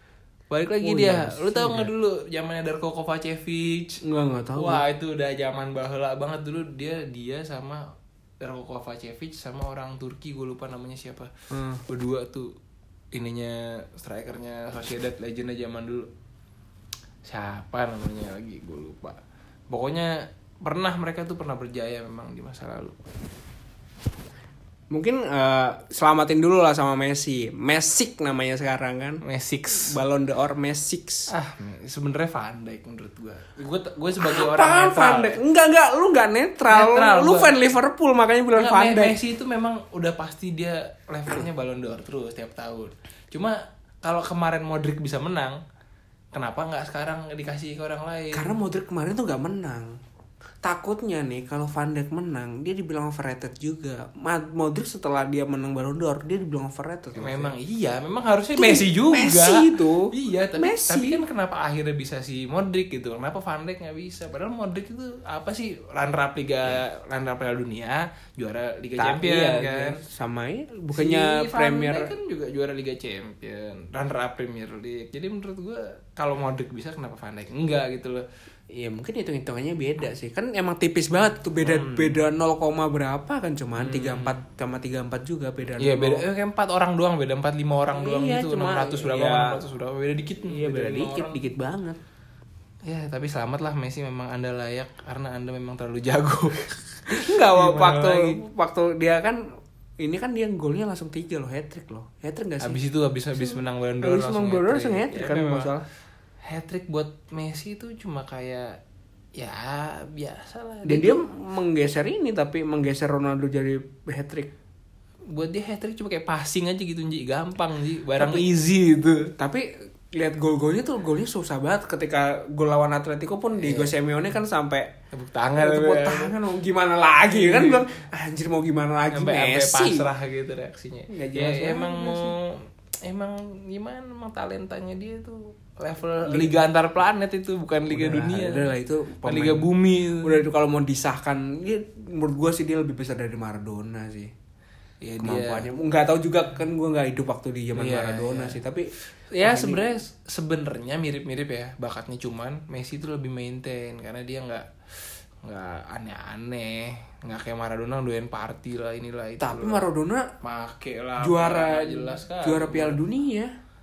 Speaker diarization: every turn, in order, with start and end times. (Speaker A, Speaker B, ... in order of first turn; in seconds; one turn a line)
Speaker A: 0.5-4.0
Speaker B: 0.8-1.9
Speaker B: 4.0-4.8
Speaker A: 4.5-11.3
Speaker B: 11.5-11.8
Speaker A: 11.9-12.6
Speaker A: 13.1-16.1
Speaker A: 17.2-19.2
Speaker A: 19.7-23.0
Speaker B: 24.9-31.3
Speaker A: 29.2-30.0
Speaker A: 31.3-35.4
Speaker B: 34.2-39.2
Speaker A: 36.7-37.6
Speaker A: 38.5-45.6
Speaker A: 46.3-48.5
Speaker B: 48.3-50.0
Speaker B: 50.6-57.5
Speaker A: 57.1-70.0
Speaker B: 58.6-61.2
Speaker B: 69.0-72.2
Speaker A: 70.9-78.2
Speaker B: 78.7-86.2
Speaker A: 81.6-82.2
Speaker A: 83.8-84.4
Speaker A: 85.8-91.5
Speaker B: 87.9-89.6
Speaker B: 90.5-92.0
Speaker A: 92.8-98.4
Speaker B: 97.1-102.8
Speaker A: 102.6-105.7
Speaker B: 103.3-105.8
Speaker A: 106.4-108.8
Speaker A: 109.4-111.3
Speaker B: 110.9-114.5
Speaker A: 115.3-119.3
Speaker B: 118.2-118.5
Speaker B: 119.4-124.9
Speaker A: 123.6-123.9
Speaker A: 125.1-126.3
Speaker B: 125.6-130.1
Speaker A: 127.3-128.0
Speaker A: 129.1-138.7
Speaker B: 131.1-132.3
Speaker B: 136.2-136.6
Speaker B: 137.9-144.3
Speaker A: 139.2-140.4
Speaker A: 145.0-145.7
Speaker B: 145.2-149.9
Speaker A: 147.7-148.6
Speaker A: 149.2-159.9
Speaker B: 159.4-160.3
Speaker A: 160.4-163.0
Speaker B: 161.2-163.5